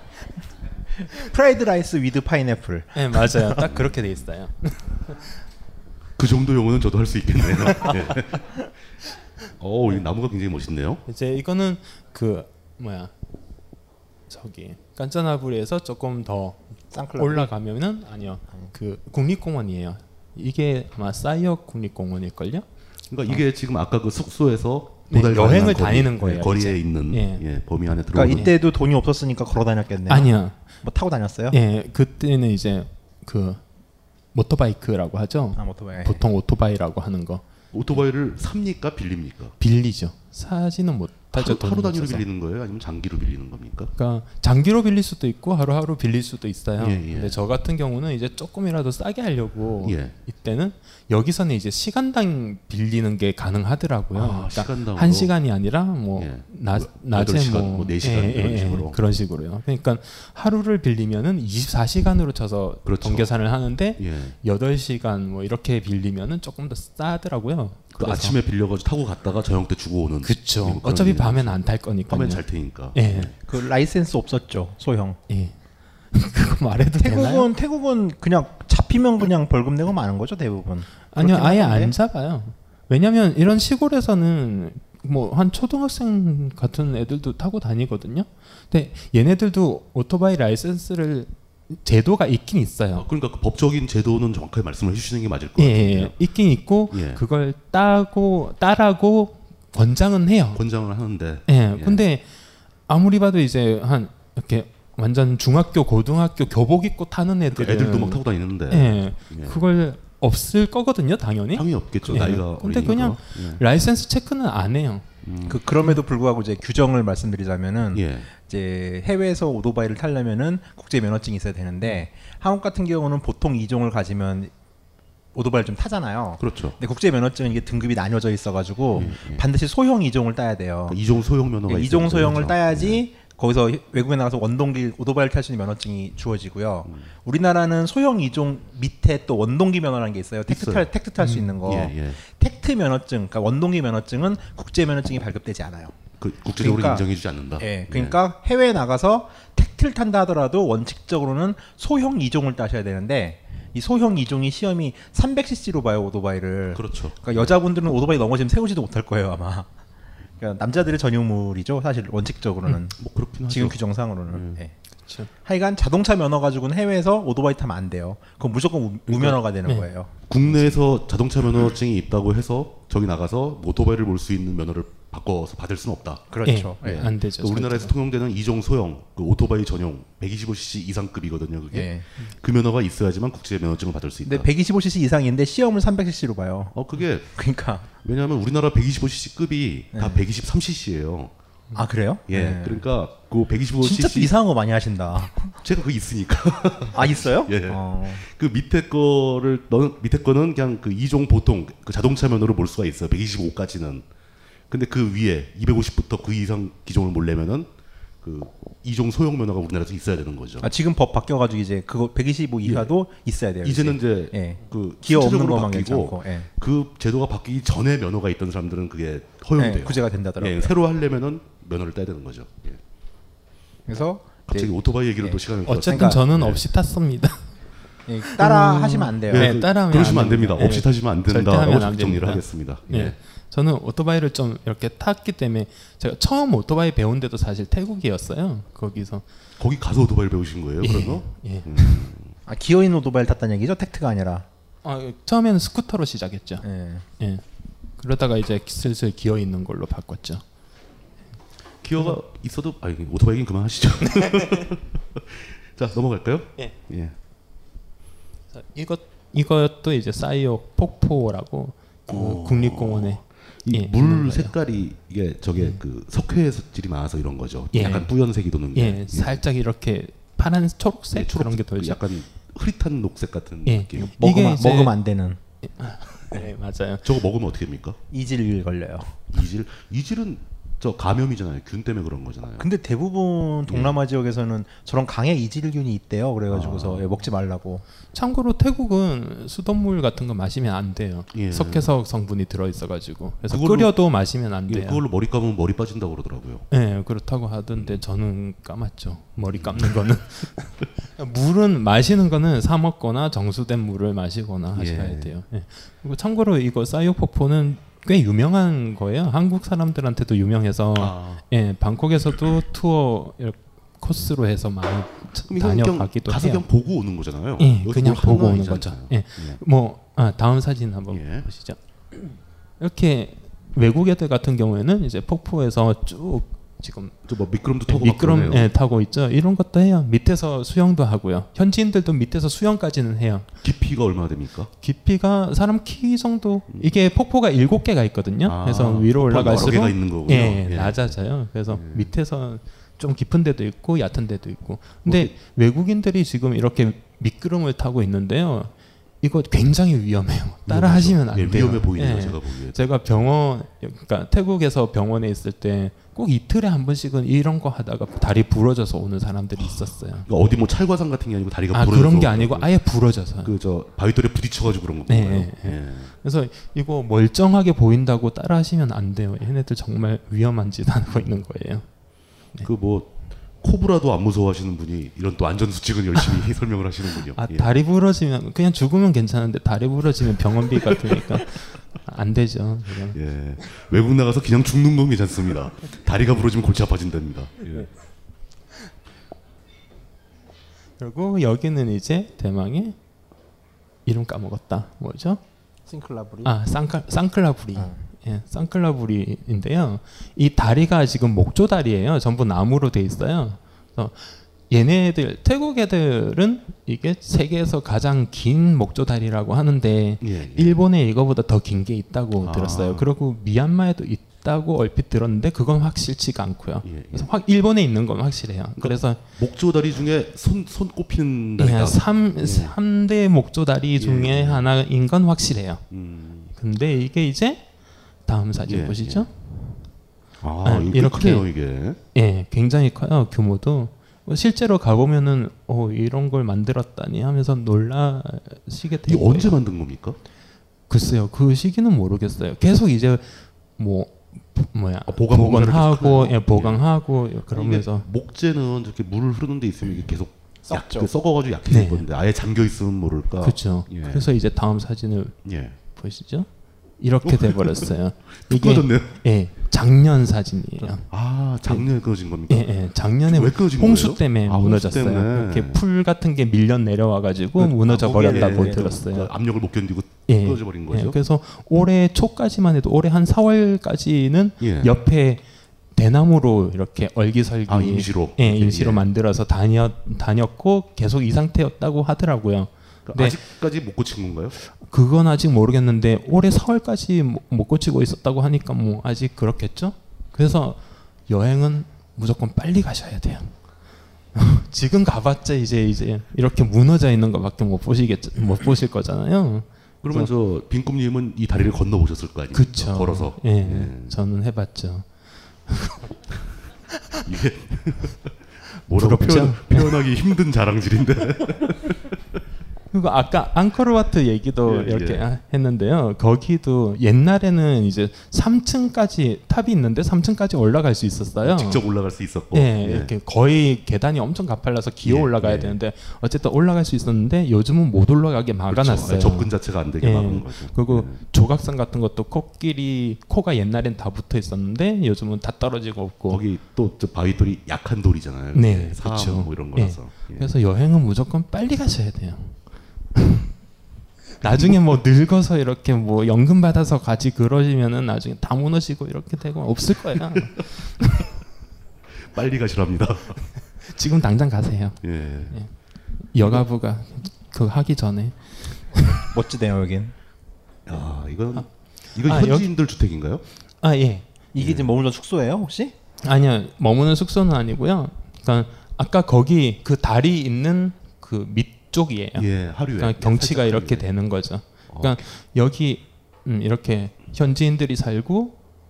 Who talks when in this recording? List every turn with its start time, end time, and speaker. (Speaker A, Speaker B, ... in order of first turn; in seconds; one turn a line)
Speaker A: 1.0-3.0
Speaker B: 2.9-5.3
Speaker C: 3.4-4.0
Speaker C: 6.2-8.5
Speaker C: 9.6-11.0
Speaker B: 11.1-13.1
Speaker B: 14.3-16.6
Speaker A: 16.9-17.5
Speaker B: 17.2-22.6
Speaker C: 23.1-28.5
Speaker B: 25.1-27.5
Speaker A: 28.1-31.6
Speaker B: 28.2-28.5
Speaker B: 30.1-30.6
Speaker B: 31.5-33.6
Speaker B: 34.3-37.4
Speaker A: 35.6-36.2
Speaker C: 37.7-39.6
Speaker B: 39.6-42.3
Speaker C: 41.3-43.9
Speaker B: 44.0-68.4
Speaker C: 46.8-47.4
Speaker C: 49.8-50.1
Speaker C: 54.1-55.3
Speaker C: 56.2-59.0
Speaker C: 62.9-63.3
Speaker C: 64.0-64.4
Speaker C: 67.9-73.3
Speaker B: 70.2-73.3
Speaker A: 73.5-75.2
Speaker B: 75.3-75.5
Speaker B: 76.1-77.5
Speaker A: 77.0-82.0
Speaker B: 81.0-93.1
Speaker C: 93.0-96.2
Speaker B: 95.6-100.6
Speaker C: 96.9-97.2
Speaker C: 100.5-102.0
Speaker B: 101.5-102.2
Speaker B: 102.9-115.0
Speaker C: 107.5-109.6
Speaker C: 111.5-113.6
Speaker C: 115.2-115.6
Speaker A: 115.5-124.5
Speaker C: 117.9-118.3
Speaker A: 125.3-131.0
Speaker C: 126.4-126.8
Speaker C: 128.9-129.4
Speaker C: 130.9-133.0
Speaker A: 131.7-146.0
Speaker C: 140.5-140.9
Speaker B: 141.2-141.5
Speaker C: 141.6-142.2
Speaker C: 146.2-148.2
Speaker A: 146.6-159.7
Speaker C: 156.7-157.6
Speaker A: 160.4-164.8
Speaker C: 163.0-164.6
Speaker B: 165.1-165.3
Speaker A: 165.4-170.7
Speaker C: 169.1-169.4
Speaker C: 170.3-176.3
Speaker A: 176.3-177.1
Speaker B: 176.4-177.9
Speaker C: 176.8-184.5
Speaker A: 181.7-182.1
Speaker A: 184.2-186.8
Speaker C: 186.7-187.3
Speaker A: 187.3-187.9
Speaker C: 187.9-191.3
Speaker A: 189.9-190.2
Speaker A: 191.8-192.8
Speaker C: 192.3-194.3
Speaker A: 193.8-195.6
Speaker C: 195.6-204.1
Speaker A: 196.9-198.2
Speaker C: 204.7-207.7
Speaker C: 208.2-210.7
Speaker A: 210.6-216.5
Speaker C: 212.6-212.9
Speaker C: 213.6-222.8
Speaker A: 219.6-220.7
Speaker A: 223.9-226.2
Speaker C: 224.5-226.6
Speaker B: 225.7-227.5
Speaker A: 228.1-229.6
Speaker B: 228.3-239.2
Speaker C: 229.3-233.2
Speaker C: 239.6-242.3
Speaker B: 240.8-242.0
Speaker A: 242.5-244.5
Speaker B: 244.8-246.7
Speaker A: 246.6-247.1
Speaker B: 248.0-250.4
Speaker C: 251.8-257.2
Speaker B: 254.2-254.7
Speaker B: 258.5-264.6
Speaker C: 262.1-269.4
Speaker B: 267.7-272.0
Speaker C: 271.1-274.1
Speaker B: 273.7-274.9
Speaker A: 274.2-275.4
Speaker B: 275.6-277.1
Speaker C: 277.0-278.0
Speaker A: 278.1-279.3
Speaker C: 279.3-282.7
Speaker A: 282.6-287.9
Speaker C: 283.7-284.0
Speaker C: 286.5-287.1
Speaker B: 288.1-295.0
Speaker C: 291.3-291.9
Speaker C: 293.5-294.0
Speaker C: 294.7-296.7
Speaker B: 296.7-316.7
Speaker C: 297.8-298.0
Speaker C: 299.5-300.1
Speaker C: 304.7-305.3
Speaker C: 311.0-311.4
Speaker C: 315.5-319.6
Speaker B: 317.6-327.2
Speaker C: 321.1-321.5
Speaker C: 327.3-328.7
Speaker B: 327.9-333.5
Speaker C: 333.6-334.7
Speaker B: 334.8-360.3
Speaker C: 338.4-341.1
Speaker C: 341.7-342.1
Speaker C: 345.1-345.4
Speaker C: 350.7-352.9
Speaker C: 359.6-362.7
Speaker B: 361.7-363.5
Speaker C: 363.4-366.1
Speaker B: 365.1-371.9
Speaker C: 372.6-377.7
Speaker B: 377.3-383.2
Speaker C: 380.8-381.2
Speaker C: 383.1-387.9
Speaker B: 391.0-393.0
Speaker B: 394.1-395.4
Speaker A: 395.9-396.5
Speaker B: 396.4-419.2
Speaker C: 410.2-410.8
Speaker C: 412.4-413.1
Speaker C: 416.8-417.3
Speaker C: 418.8-422.8
Speaker B: 421.6-425.9
Speaker C: 424.0-424.7
Speaker C: 425.9-426.5
Speaker B: 426.5-427.7
Speaker B: 428.3-429.8
Speaker C: 428.7-429.3
Speaker C: 430.4-432.0
Speaker B: 430.6-439.6
Speaker C: 439.1-440.2
Speaker B: 440.9-448.1
Speaker C: 445.1-446.9
Speaker C: 447.5-454.3
Speaker A: 450.7-451.1
Speaker B: 451.7-452.1
Speaker B: 453.4-455.4
Speaker C: 455.4-455.8
Speaker B: 455.9-456.5
Speaker B: 457.0-461.1
Speaker C: 457.2-459.2
Speaker C: 461.1-465.8
Speaker B: 462.5-469.3
Speaker C: 467.6-471.2
Speaker A: 467.9-468.9
Speaker B: 470.3-475.4
Speaker C: 474.6-475.0
Speaker B: 475.9-483.4
Speaker C: 477.7-479.1
Speaker C: 483.1-484.6
Speaker B: 484.6-493.6
Speaker B: 494.3-500.3
Speaker C: 500.0-504.2
Speaker B: 502.5-505.1
Speaker B: 505.7-506.1
Speaker C: 507.2-508.4
Speaker C: 508.9-512.2
Speaker B: 508.9-510.0
Speaker B: 512.9-521.8
Speaker C: 514.6-515.3
Speaker C: 521.4-523.1
Speaker B: 522.5-536.4
Speaker C: 525.0-525.8
Speaker C: 528.7-531.2
Speaker C: 536.3-540.5
Speaker B: 538.5-542.6
Speaker B: 543.1-543.5
Speaker B: 544.4-551.3
Speaker C: 544.5-544.8
Speaker C: 552.2-553.4
Speaker B: 553.8-555.7
Speaker C: 555.0-555.6
Speaker B: 556.2-559.2
Speaker C: 556.4-556.6
Speaker A: 559.1-560.1
Speaker C: 560.9-563.4
Speaker B: 562.2-562.7
Speaker B: 563.8-564.3
Speaker A: 564.5-566.0
Speaker C: 564.6-564.9
Speaker B: 566.2-578.6
Speaker C: 572.4-574.1
Speaker C: 574.9-575.2